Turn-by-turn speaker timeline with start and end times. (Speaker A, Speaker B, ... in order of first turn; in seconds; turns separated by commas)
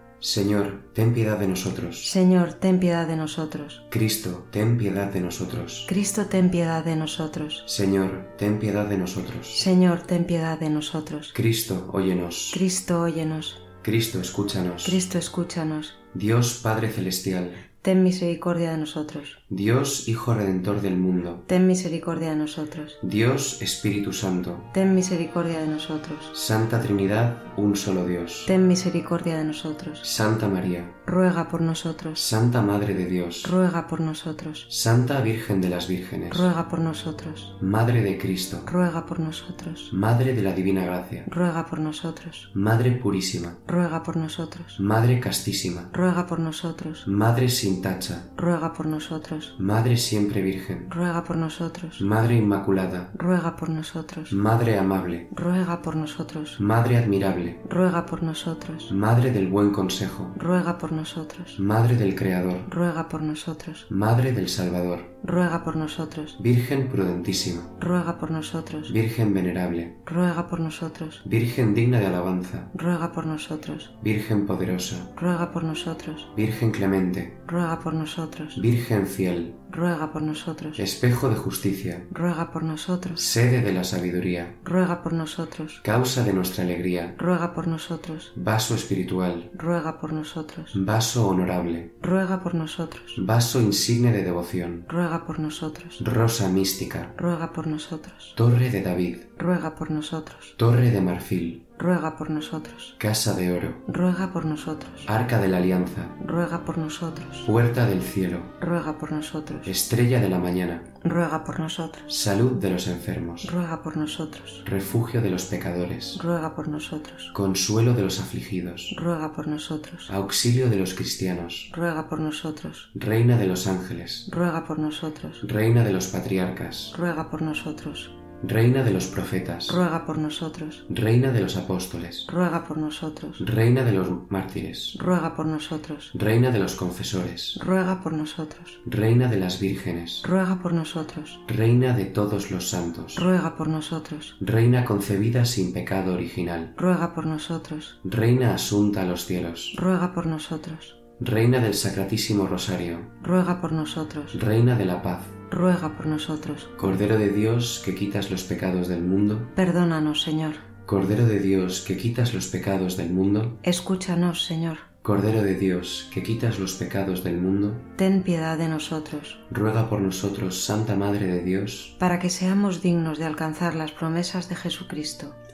Speaker A: 0.2-2.1, Speaker B: 2.0-3.9, Speaker A: 3.9-5.9, Speaker B: 5.9-7.7, Speaker A: 7.7-9.7, Speaker B: 9.5-11.3, Speaker A: 11.3-12.6, Speaker B: 12.5-13.6, Speaker A: 13.8-15.0, Speaker B: 14.8-16.0, Speaker A: 16.1-17.6, Speaker B: 17.8-19.4, Speaker A: 19.5-21.5, Speaker B: 21.5-23.0, Speaker A: 23.0-24.7, Speaker B: 24.7-26.3, Speaker A: 26.3-28.5, Speaker B: 28.5-30.1, Speaker A: 30.0-31.0, Speaker B: 31.1-32.2, Speaker A: 32.1-33.5, Speaker B: 33.4-34.7, Speaker A: 34.7-36.5, Speaker B: 36.3-37.5, Speaker A: 37.6-38.7, Speaker B: 38.7-39.9, Speaker A: 39.9-41.3, Speaker B: 41.3-42.5, Speaker A: 42.5-43.6, Speaker B: 43.7-44.8, Speaker A: 44.8-45.9, Speaker B: 45.9-47.1, Speaker A: 47.0-48.3, Speaker B: 48.4-49.5, Speaker A: 49.6-50.9, Speaker B: 50.9-52.1, Speaker A: 52.0-53.1, Speaker B: 53.1-54.4, Speaker A: 54.3-55.3, Speaker B: 55.3-56.6, Speaker A: 56.6-57.6, Speaker B: 57.6-58.9, Speaker A: 58.9-60.4, Speaker B: 60.4-61.6, Speaker A: 61.6-62.7, Speaker B: 62.7-63.9, Speaker A: 63.9-65.2, Speaker B: 65.2-66.4, Speaker A: 66.4-67.7, Speaker B: 67.8-68.9, Speaker A: 68.9-70.0, Speaker B: 70.0-71.2, Speaker A: 71.2-72.7, Speaker B: 72.7-73.9, Speaker A: 74.0-75.1, Speaker B: 75.2-76.3, Speaker A: 76.3-77.4, Speaker B: 77.5-78.6, Speaker A: 78.6-79.6, Speaker B: 79.7-80.8, Speaker A: 80.8-82.1, Speaker B: 82.1-83.2, Speaker A: 83.2-84.6, Speaker B: 84.6-85.8, Speaker A: 85.8-87.2, Speaker B: 87.2-88.3, Speaker A: 88.3-89.5, Speaker B: 89.5-90.8, Speaker A: 90.7-92.0, Speaker B: 92.0-93.2, Speaker A: 93.2-94.9, Speaker B: 94.9-96.0, Speaker A: 96.0-97.2, Speaker B: 97.2-98.3, Speaker A: 98.4-99.3, Speaker B: 99.4-100.5, Speaker A: 100.6-101.7, Speaker B: 101.8-103.0, Speaker A: 103.0-103.8, Speaker B: 103.9-105.1, Speaker A: 105.1-106.2, Speaker B: 106.2-107.5, Speaker A: 107.5-108.6, Speaker B: 108.6-109.7, Speaker A: 109.7-110.9, Speaker B: 111.0-112.1, Speaker A: 112.1-113.5, Speaker B: 113.4-114.7, Speaker A: 114.7-116.2, Speaker B: 116.2-117.3, Speaker A: 117.3-119.0, Speaker B: 118.9-120.1, Speaker A: 120.1-121.7, Speaker B: 121.7-122.9, Speaker A: 123.0-124.3, Speaker B: 124.3-125.4, Speaker A: 125.4-127.0, Speaker B: 126.9-128.2, Speaker A: 128.4-129.8, Speaker B: 129.7-130.8, Speaker A: 130.9-132.3, Speaker B: 132.3-133.4, Speaker A: 133.4-135.0, Speaker B: 134.9-136.1, Speaker A: 136.1-137.6, Speaker B: 137.6-138.8, Speaker A: 138.8-140.3, Speaker B: 140.2-141.4, Speaker A: 141.5-143.2, Speaker B: 143.2-144.4, Speaker A: 144.4-146.8, Speaker B: 146.8-148.0, Speaker A: 148.0-149.8, Speaker B: 149.7-151.0, Speaker A: 151.2-153.1, Speaker B: 153.2-154.4, Speaker A: 154.3-155.4, Speaker B: 155.5-156.7, Speaker A: 156.8-159.5, Speaker B: 159.6-160.7, Speaker A: 160.8-163.6, Speaker B: 163.6-164.9, Speaker A: 165.0-167.9, Speaker B: 168.0-169.4, Speaker A: 169.5-172.0, Speaker B: 172.0-175.4